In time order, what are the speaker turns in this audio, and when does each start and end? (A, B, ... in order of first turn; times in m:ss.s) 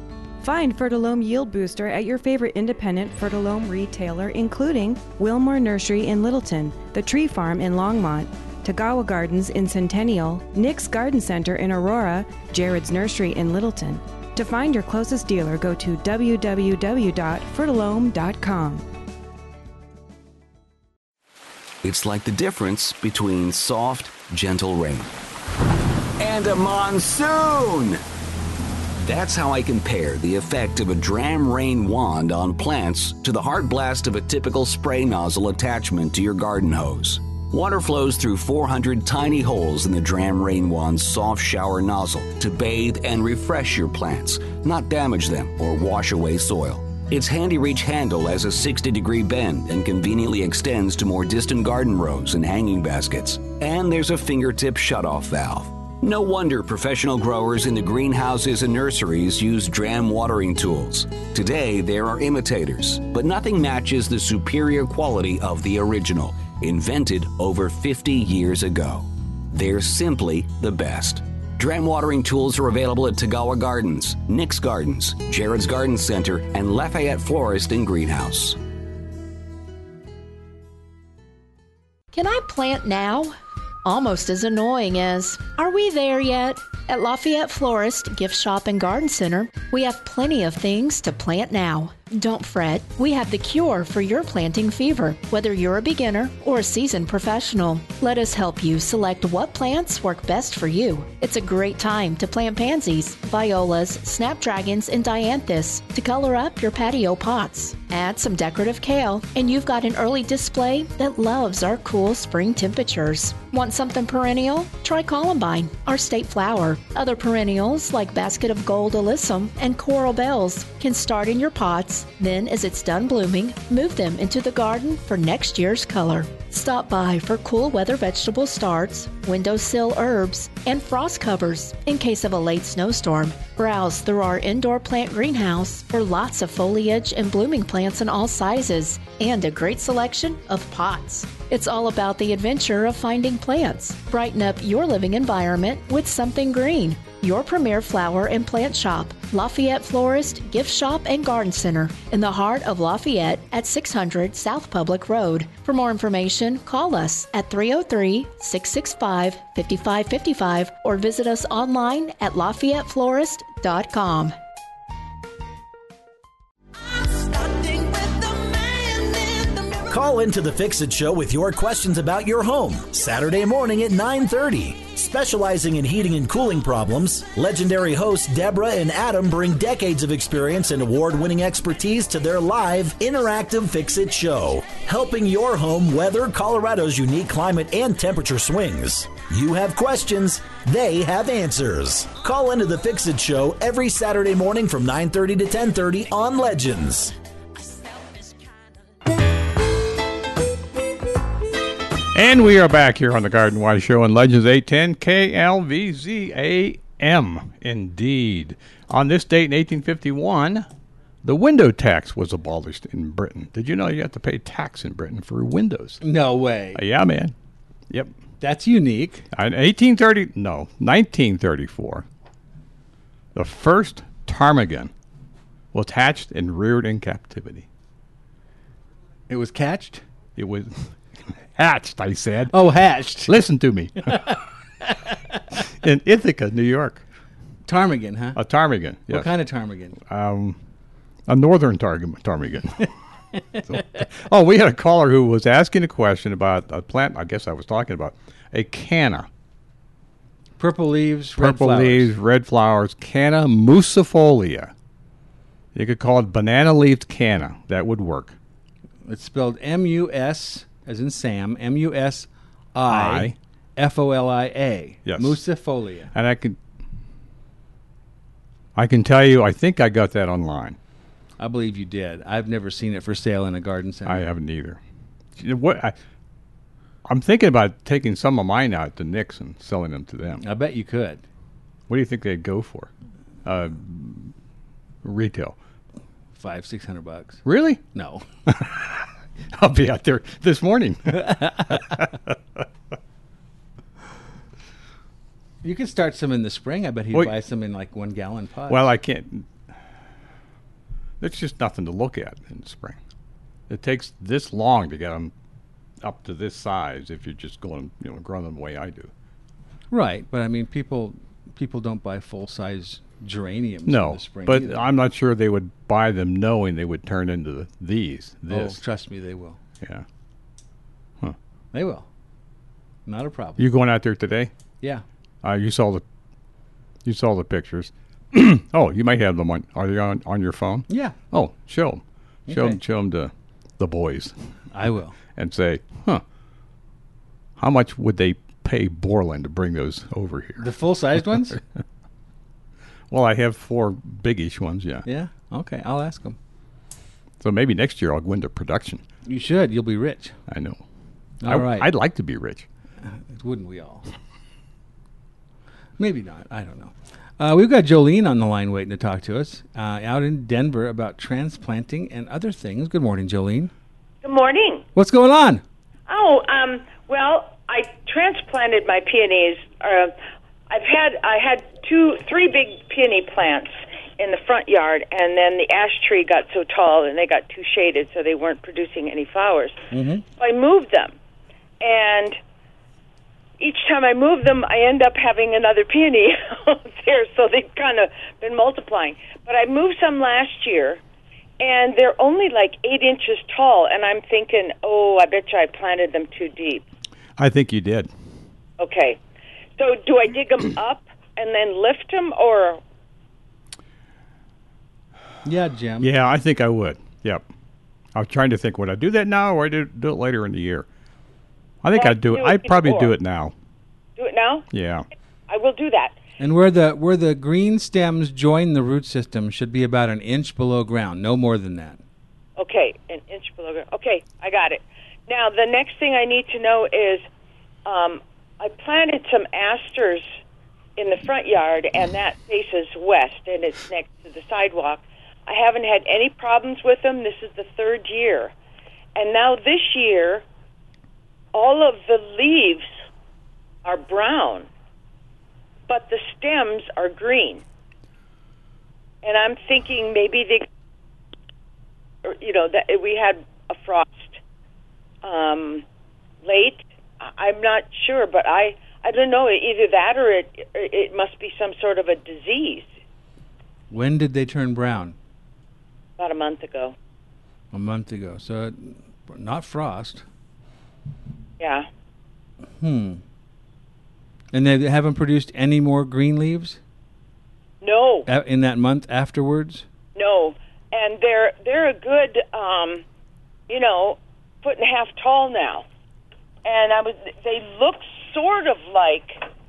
0:00.4-0:18.9 A
0:21.8-0:25.1 B
0:26.2-0:28.0 B
0:29.0-1:18.6 B
1:22.1-2:44.4 C
2:49.9-3:17.2 D
3:22.1-3:30.7 E
3:31.2-3:36.0 E
3:36.0-3:36.8 F
3:36.8-3:37.3 E
3:37.9-3:38.2 E
3:38.4-3:39.2 F
3:39.3-3:42.1 E
3:43.4-3:44.9 E
3:45.7-3:47.7 E
3:49.3-3:50.0 F
3:50.4-3:50.9 E
3:51.6-3:52.6 E
3:52.5-3:53.4 F
3:53.2-3:54.3 E
3:54.1-3:54.3 F
3:55.7-3:57.0 E
3:57.7-3:58.4 F
3:58.4-3:59.3 E
3:59.1-4:00.0 F
4:00.0-4:00.6 E
4:01.3-4:02.9 E
4:03.7-4:09.3 E
4:10.6-4:12.1 F
4:11.4-4:14.7 E
4:15.8-4:18.4 E
4:19.0-4:26.1 F
4:22.9-4:23.4 E
4:25.1-4:25.4 E
4:26.1-4:26.6 E
4:28.8-4:30.8 E
4:31.4-4:34.2 F
4:34.1-4:34.8 E
4:35.4-4:36.0 E
4:37.1-4:40.4 E
4:40.4-4:41.2 F
4:41.9-4:42.9 E
4:43.4-4:44.3 E
4:45.0-4:45.6 E
4:46.4-4:48.2 F
4:47.4-4:47.9 E
4:48.5-4:52.6 E
4:55.6-4:58.9 F
4:58.7-4:59.5 E
5:01.2-5:03.0 E
5:03.7-5:05.3 E
5:06.0-5:09.1 E
5:09.9-5:14.8 F
5:13.9-5:18.8 E
5:18.5-5:19.6 F
5:21.7-5:22.1 F
5:23.1-5:23.6 F
5:23.6-5:24.5 E
5:25.4-5:26.0 E
5:27.0-5:34.3 E
5:30.9-5:31.2 F
5:32.5-5:32.8 F
5:34.7-5:35.2 F
5:35.4-5:36.2 E
5:37.6-5:40.7 E
5:40.6-5:41.6 F
5:43.1-5:45.1 E
5:45.1-5:46.4 F
5:47.4-5:49.0 E
5:49.2-5:50.3 F
5:50.5-5:50.8 E
5:51.4-5:51.9 F
5:51.5-5:52.7 E
5:53.0-5:54.0 F
5:56.0-6:03.7 F
6:04.2-6:04.8 G
6:05.0-6:05.6 F
6:06.1-6:10.2 G
6:10.7-6:19.8 G
6:19.9-6:20.2 F
6:20.4-6:21.1 G
6:21.8-6:22.4 G
6:23.6-6:31.0 G
6:31.6-6:36.8 G
6:37.4-6:38.1 E
6:38.8-6:39.2 G
6:39.8-6:42.8 G
6:45.4-6:46.1 F
6:46.0-6:47.5 E
6:48.2-6:50.9 E
6:51.8-6:53.5 E
6:51.9-6:53.2 G
6:54.2-6:54.7 G
6:54.7-6:55.1 E
6:55.5-6:56.2 G
6:56.4-7:02.0 F
7:02.6-7:07.3 G
7:07.9-7:10.2 G
7:11.0-7:18.5 G
7:19.2-7:20.4 G
7:21.5-7:22.9 G
7:23.8-7:24.7 G
7:25.9-7:27.6 G
7:29.2-7:30.7 G
7:32.2-7:34.4 G
7:35.2-7:35.8 G
7:36.4-7:42.9 G
7:43.9-7:45.2 F
7:46.2-7:47.0 G
7:47.7-7:50.2 F
7:51.6-7:51.9 G
7:52.8-7:53.2 F
7:54.5-7:56.8 F
7:57.8-7:58.3 G
7:58.3-7:59.8 F
8:00.2-8:03.0 G
8:03.7-8:05.8 G
8:06.6-8:09.4 G